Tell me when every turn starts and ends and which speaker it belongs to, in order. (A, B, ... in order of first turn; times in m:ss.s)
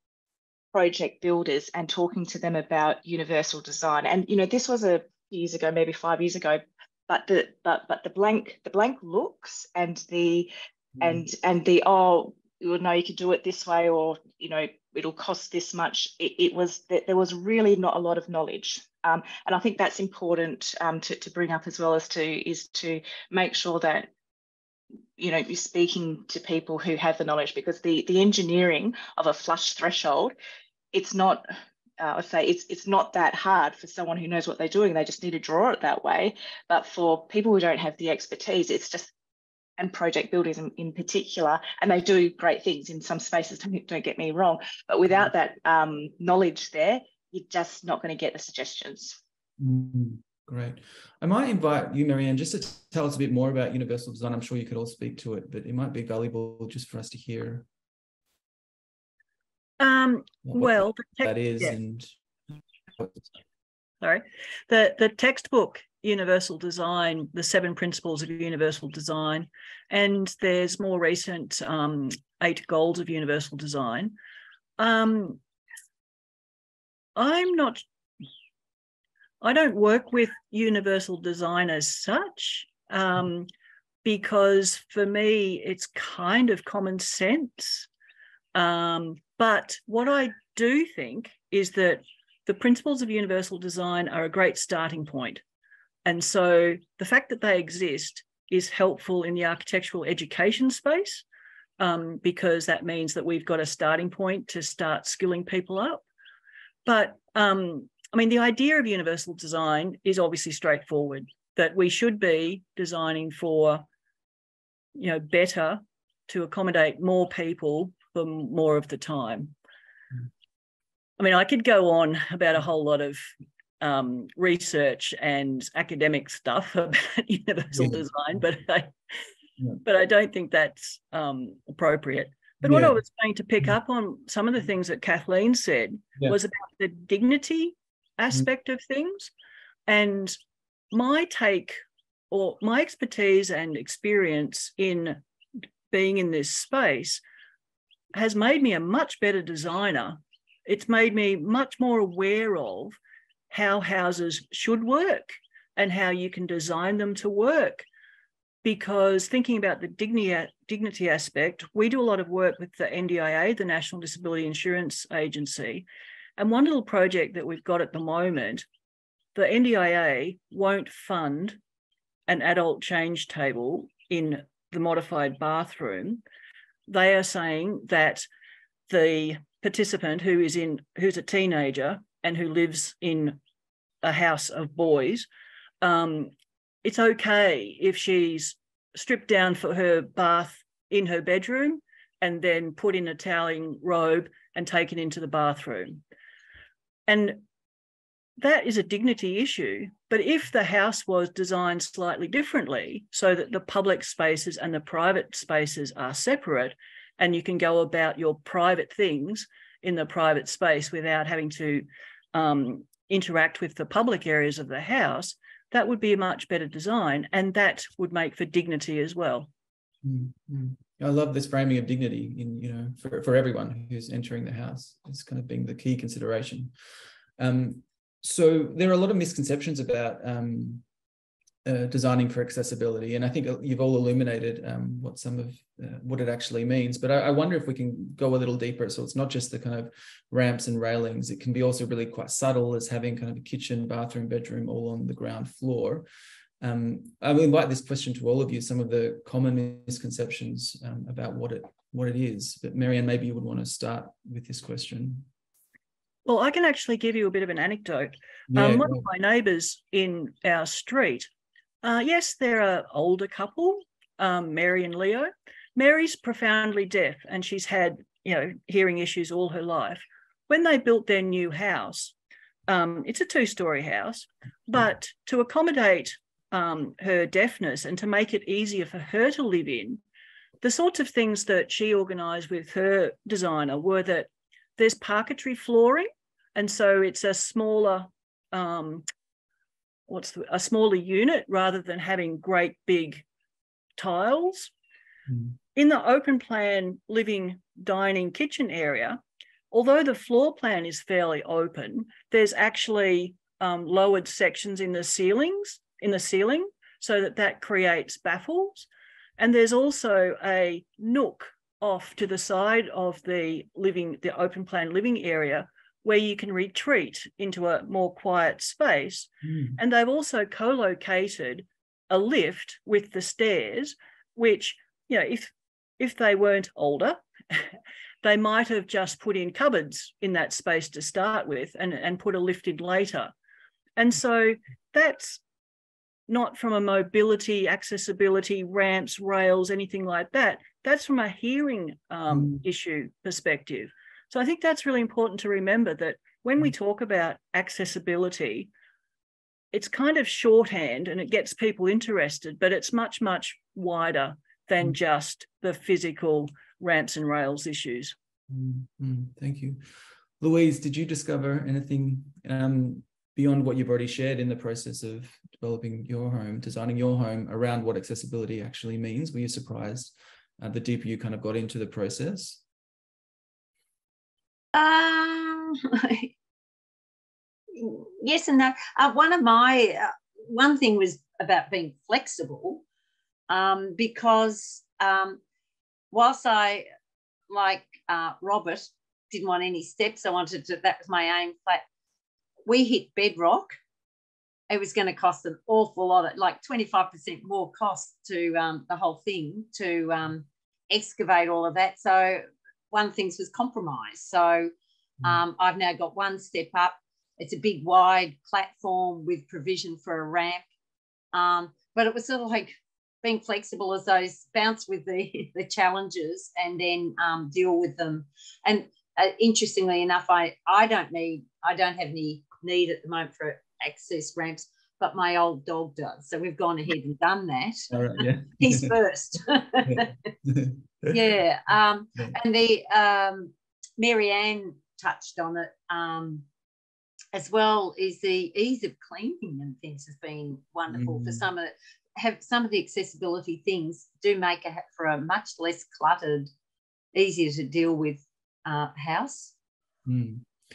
0:00.7-0:24.1 A
0:25.2-0:30.4 A
0:30.9-0:31.4 A
0:32.0-0:39.1 A
0:39.8-0:49.2 A
0:49.6-0:57.7 B
0:59.8-1:01.8 C
1:00.5-1:02.1 B
1:03.0-1:03.2 B
1:04.0-1:14.2 C
1:14.8-1:15.4 C
1:17.2-1:17.8 C
1:19.4-1:23.5 C
1:24.0-1:27.9 C
1:28.6-1:35.4 C
1:36.0-1:41.2 C
1:41.8-1:46.0 C
1:46.9-1:53.9 C
1:55.0-1:59.6 C
2:01.2-2:08.9 C
2:07.8-2:08.0 B
2:09.8-2:19.3 C
2:12.6-2:13.0 B
2:19.9-2:20.4 C
2:20.9-2:21.8 C
2:22.3-2:25.2 C
2:25.9-2:27.2 C
2:28.1-2:33.0 C
2:33.5-2:37.9 C
2:38.6-2:45.9 C
2:46.4-2:48.7 C
2:49.4-2:51.6 C
2:52.3-2:56.2 C
2:56.9-2:58.2 C
2:58.9-3:03.4 C
3:04.0-3:05.3 C
3:05.8-3:06.3 C
3:06.8-3:16.0 C
3:17.1-3:17.4 C
3:18.4-3:39.5 C
3:40.0-3:46.7 B
3:47.4-3:50.8 B
3:51.6-4:06.1 B
4:06.6-4:15.3 B
4:16.2-4:21.3 C
4:18.5-4:19.0 B
4:21.8-4:32.2 C
4:32.7-4:40.0 C
4:40.6-4:49.1 C
4:50.1-4:53.2 C
4:54.0-4:54.7 C
4:55.3-4:55.6 B
4:55.8-5:33.3 C
5:19.5-5:19.8 B
5:34.0-5:35.4 C
5:36.3-5:48.7 C
5:42.4-5:42.6 B
5:49.7-5:58.1 C
5:58.5-5:59.8 B
6:00.4-6:12.6 B
6:14.8-6:16.3 D
6:17.7-6:22.8 D
6:23.5-6:25.4 D
6:26.1-6:26.9 D
6:27.5-6:31.8 D
6:32.7-6:33.8 D
6:34.7-6:44.7 D
6:45.2-6:50.6 D
6:51.3-7:10.1 D
7:07.9-7:08.9 B
7:09.8-7:11.2 B
7:11.1-7:16.5 D
7:17.3-7:26.5 D
7:20.9-7:21.4 B
7:27.1-7:29.5 D
7:30.1-7:30.5 B